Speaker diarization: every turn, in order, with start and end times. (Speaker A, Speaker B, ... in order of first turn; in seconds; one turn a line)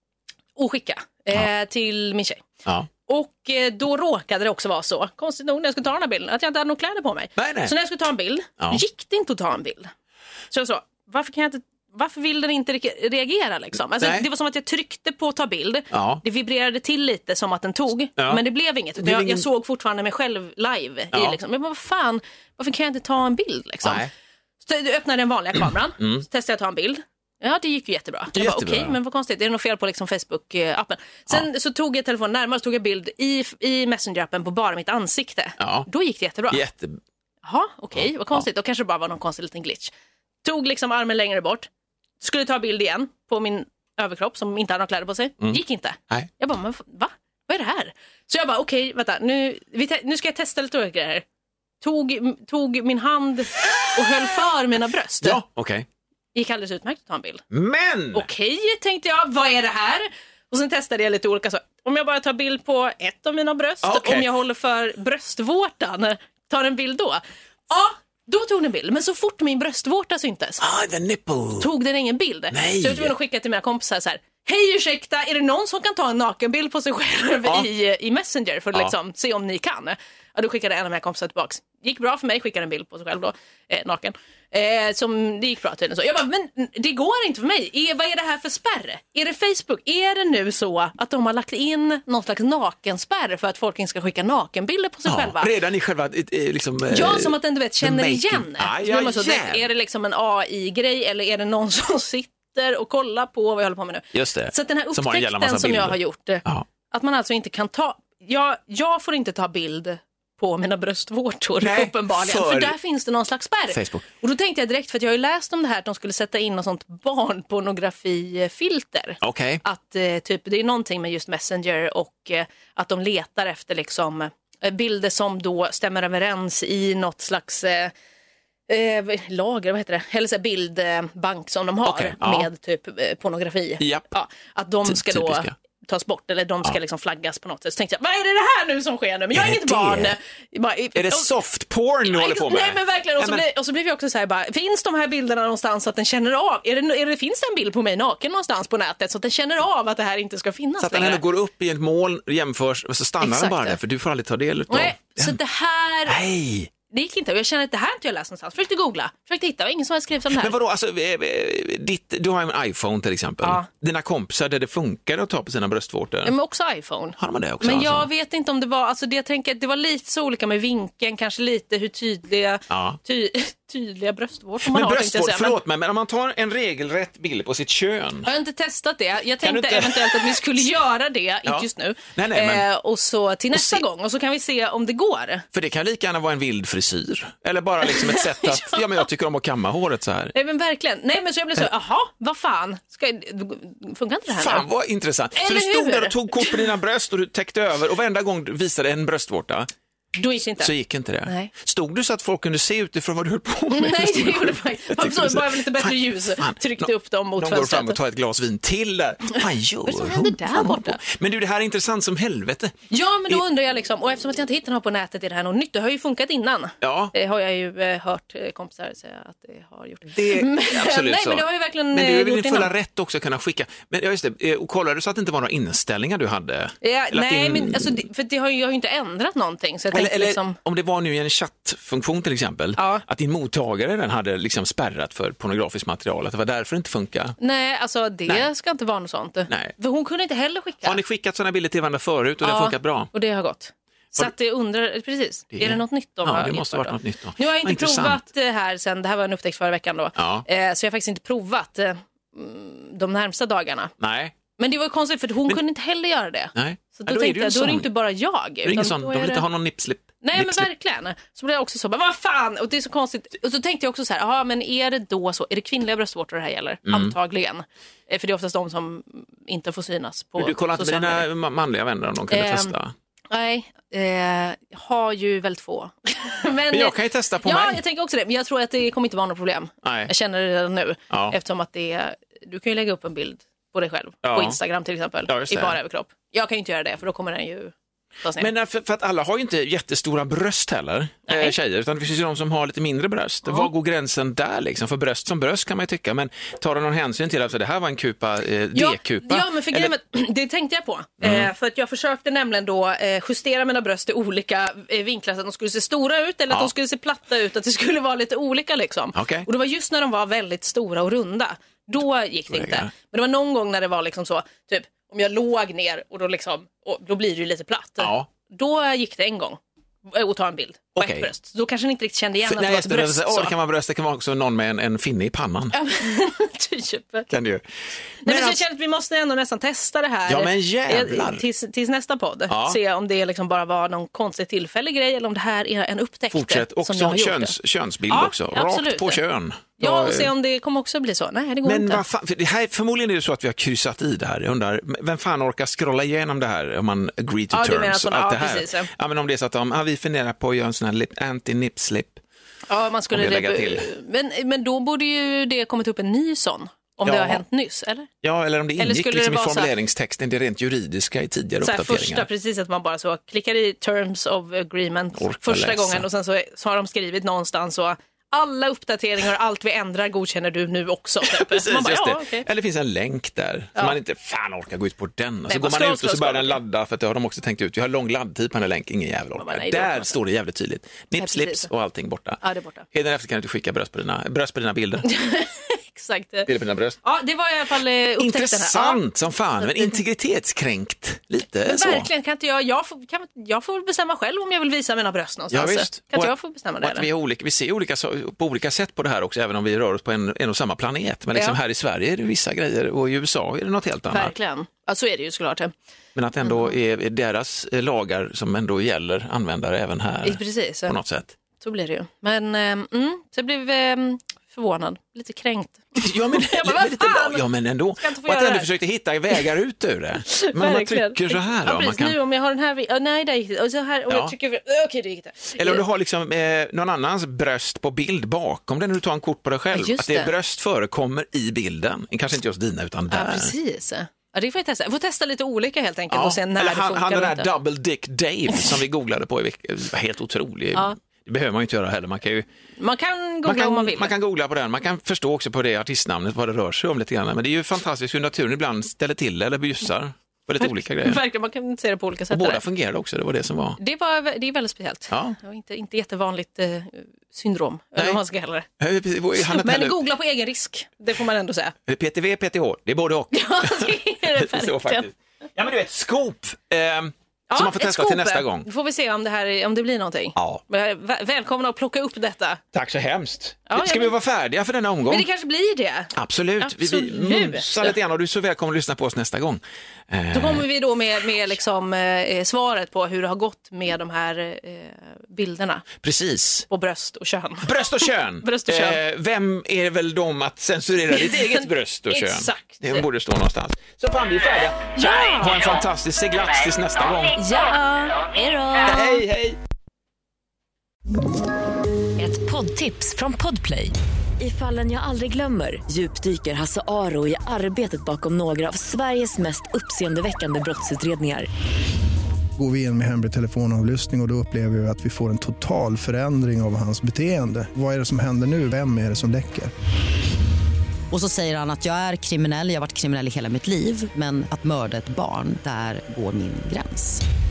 Speaker A: 0.6-2.4
Speaker A: 3.0-9.9
Speaker B: 7.4-7.7
Speaker A: 10.5-24.1
Speaker B: 14.0-14.3
Speaker B: 15.9-16.2
Speaker B: 19.0-19.4
Speaker B: 21.1-21.4
Speaker B: 23.8-24.1
Speaker A: 24.6-36.6
Speaker B: 26.0-26.2
Speaker B: 28.3-29.0
Speaker B: 35.6-35.9
Speaker B: 36.5-37.0
Speaker A: 37.4-39.9
Speaker A: 40.4-41.7
Speaker A: 42.2-51.2
Speaker A: 51.8-55.4
Speaker B: 55.2-55.9
Speaker A: 56.3-57.4
Speaker B: 57.5-58.2
Speaker A: 58.1-70.6
Speaker B: 63.8-64.3
Speaker B: 70.6-71.7
Speaker A: 71.6-95.5
Speaker B: 72.5-73.1
Speaker B: 95.0-99.6
Speaker A: 96.9-127.9
Speaker B: 104.1-106.6
Speaker B: 111.6-112.7
Speaker B: 113.7-114.0
Speaker B: 119.2-119.6
Speaker A: 128.7-141.3
Speaker B: 131.8-132.5
Speaker B: 133.8-134.1
Speaker B: 134.8-135.5
Speaker B: 139.3-140.1
Speaker B: 140.9-143.4
Speaker A: 142.0-151.2
Speaker B: 150.8-155.4
Speaker A: 153.2-153.8
Speaker A: 154.7-156.2
Speaker B: 156.1-156.7
Speaker A: 156.9-160.5
Speaker B: 160.4-166.3
Speaker A: 163.4-163.7
Speaker A: 166.2-175.5
Speaker B: 167.2-168.1
Speaker B: 172.7-173.0
Speaker B: 174.6-178.3
Speaker A: 178.2-185.4
Speaker B: 179.4-180.5
Speaker B: 181.4-182.6
Speaker B: 183.5-183.8
Speaker B: 185.5-190.3
Speaker A: 187.8-188.8
Speaker A: 190.3-194.7
Speaker B: 194.4-199.7
Speaker A: 195.3-196.7
Speaker A: 200.2-200.7
Speaker B: 200.6-212.7
Speaker A: 201.2-201.5
Speaker A: 203.7-208.0
Speaker A: 209.4-211.0
Speaker A: 212.9-222.7
Speaker B: 216.8-217.1
Speaker B: 220.1-228.0
Speaker A: 226.8-230.6
Speaker B: 229.9-237.4
Speaker A: 232.8-233.0
Speaker A: 237.4-241.0
Speaker B: 240.8-243.1
Speaker A: 242.4-253.9
Speaker B: 245.5-248.2
Speaker B: 250.2-250.4
Speaker B: 254.0-254.3
Speaker A: 254.6-259.4
Speaker B: 256.5-257.9
Speaker B: 258.6-260.7
Speaker A: 260.2-271.3
Speaker B: 266.9-267.1
Speaker B: 270.4-272.9
Speaker A: 272.3-272.7
Speaker A: 273.3-288.5
Speaker B: 276.7-277.8
Speaker B: 279.8-280.1
Speaker B: 281.1-281.3
Speaker B: 284.2-284.6
Speaker B: 285.3-285.8
Speaker B: 288.4-299.9
Speaker A: 291.3-291.5
Speaker A: 298.7-323.5
Speaker B: 301.2-301.5
Speaker B: 309.1-309.5
Speaker B: 312.5-312.9
Speaker B: 318.0-318.3
Speaker B: 320.9-321.3
Speaker B: 322.4-325.7
Speaker A: 325.7-327.3
Speaker B: 327.3-327.6
Speaker B: 328.2-328.6
Speaker A: 328.2-337.5
Speaker B: 330.3-331.4
Speaker B: 332.5-332.8
Speaker B: 336.3-340.3
Speaker A: 338.1-339.2
Speaker A: 339.8-342.0
Speaker B: 341.6-352.2
Speaker A: 347.5-348.9
Speaker A: 352.7-358.1
Speaker B: 353.1-353.9
Speaker B: 357.0-357.4
Speaker B: 358.2-362.3
Speaker A: 358.8-359.7
Speaker A: 361.6-372.5
Speaker B: 365.2-366.0
Speaker B: 371.3-382.4
Speaker A: 375.5-376.6
Speaker A: 379.4-380.1
Speaker A: 381.1-381.7
Speaker A: 382.4-382.9
Speaker B: 382.9-385.1
Speaker A: 385.0-386.5
Speaker B: 386.5-387.0
Speaker A: 387.0-389.0
Speaker B: 388.2-392.1
Speaker A: 389.6-390.0
Speaker A: 391.6-397.1
Speaker B: 395.5-404.3
Speaker A: 401.3-401.6
Speaker A: 404.1-405.7
Speaker B: 406.1-411.3
Speaker A: 406.4-406.7
Speaker A: 410.2-411.0
Speaker A: 411.6-417.4
Speaker B: 415.9-422.1
Speaker A: 418.0-418.7
Speaker A: 420.3-425.8
Speaker B: 424.1-424.3
Speaker B: 425.6-433.5
Speaker A: 429.7-430.3
Speaker A: 433.1-437.4
Speaker B: 436.1-442.4
Speaker A: 442.8-444.1
Speaker B: 443.4-451.2
Speaker A: 450.6-452.6
Speaker B: 452.3-453.8
Speaker A: 453.8-458.7
Speaker B: 455.1-455.4
Speaker B: 458.8-459.9
Speaker A: 459.4-461.7
Speaker B: 461.9-468.7
Speaker A: 463.3-465.1
Speaker A: 467.5-472.6
Speaker B: 470.4-470.6
Speaker B: 472.7-475.2
Speaker A: 473.7-474.1
Speaker A: 475.1-477.9
Speaker B: 476.1-480.7
Speaker A: 480.3-485.9
Speaker B: 486.0-486.7
Speaker A: 486.7-489.0
Speaker B: 487.6-497.4
Speaker A: 491.1-493.1
Speaker A: 494.9-495.7
Speaker A: 497.3-499.2
Speaker B: 498.9-499.6
Speaker C: 502.2-511.5
Speaker D: 512.6-519.7
Speaker E: 521.1-527.2